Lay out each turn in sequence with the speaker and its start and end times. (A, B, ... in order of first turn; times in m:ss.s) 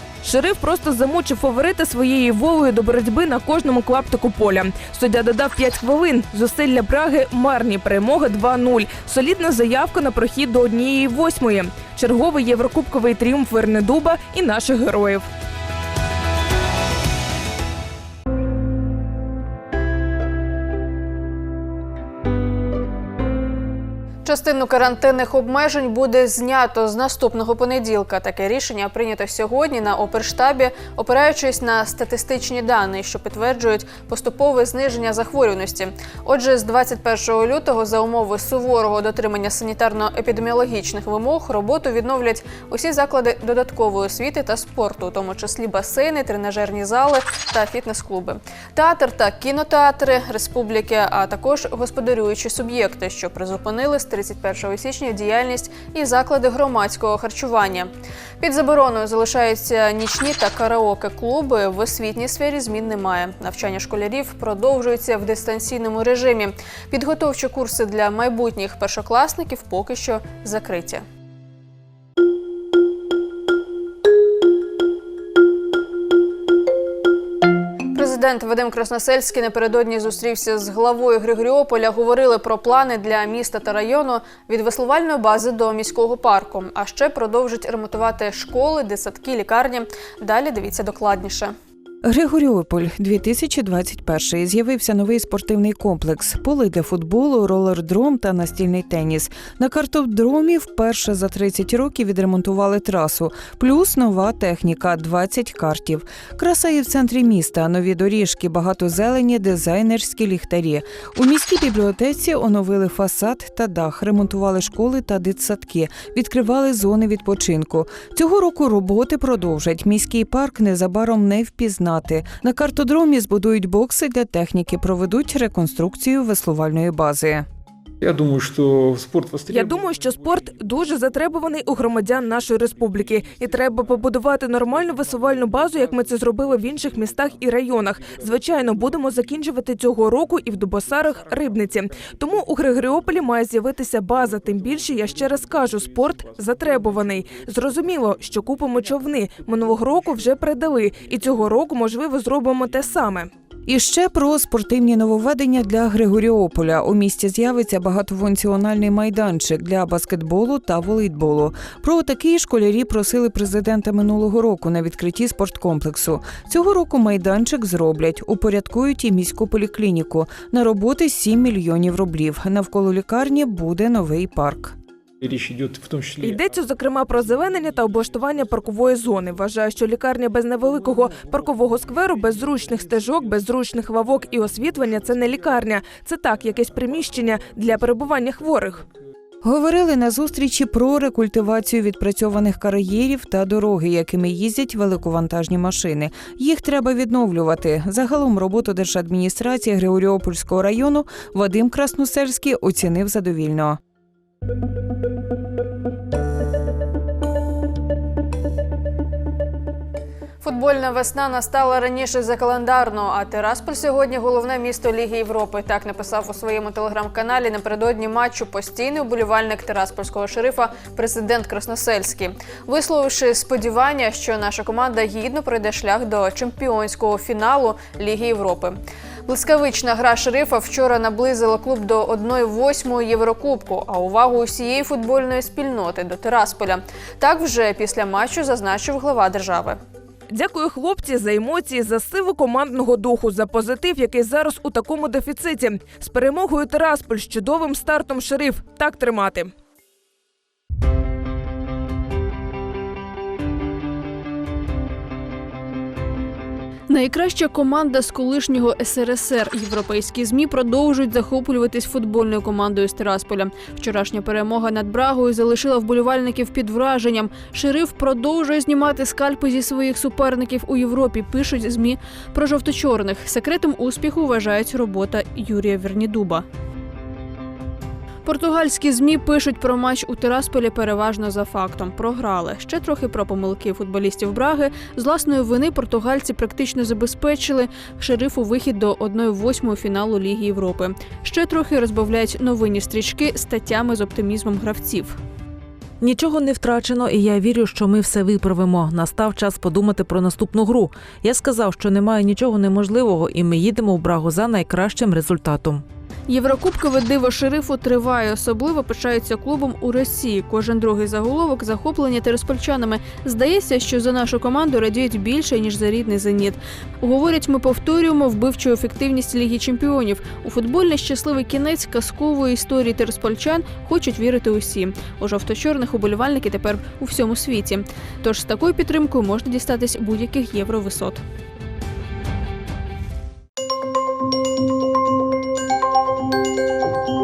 0:00.2-0:15.3 A
0:24.2-1:11.0 B
1:17.9-1:31.5 B
1:32.0-2:07.4 C
2:08.0-2:09.7 D
2:09.5-2:33.3 A
2:33.7-2:54.8 C
2:55.2-2:56.4 D
2:56.2-3:08.9 A
3:09.4-3:23.8 C
3:30.4-3:48.8 B
3:49.3-3:59.8 B
4:00.3-4:09.5 A
4:16.9-4:36.4 B
4:38.2-4:55.2 B
4:56.0-5:05.8 E
5:06.3-5:31.2 B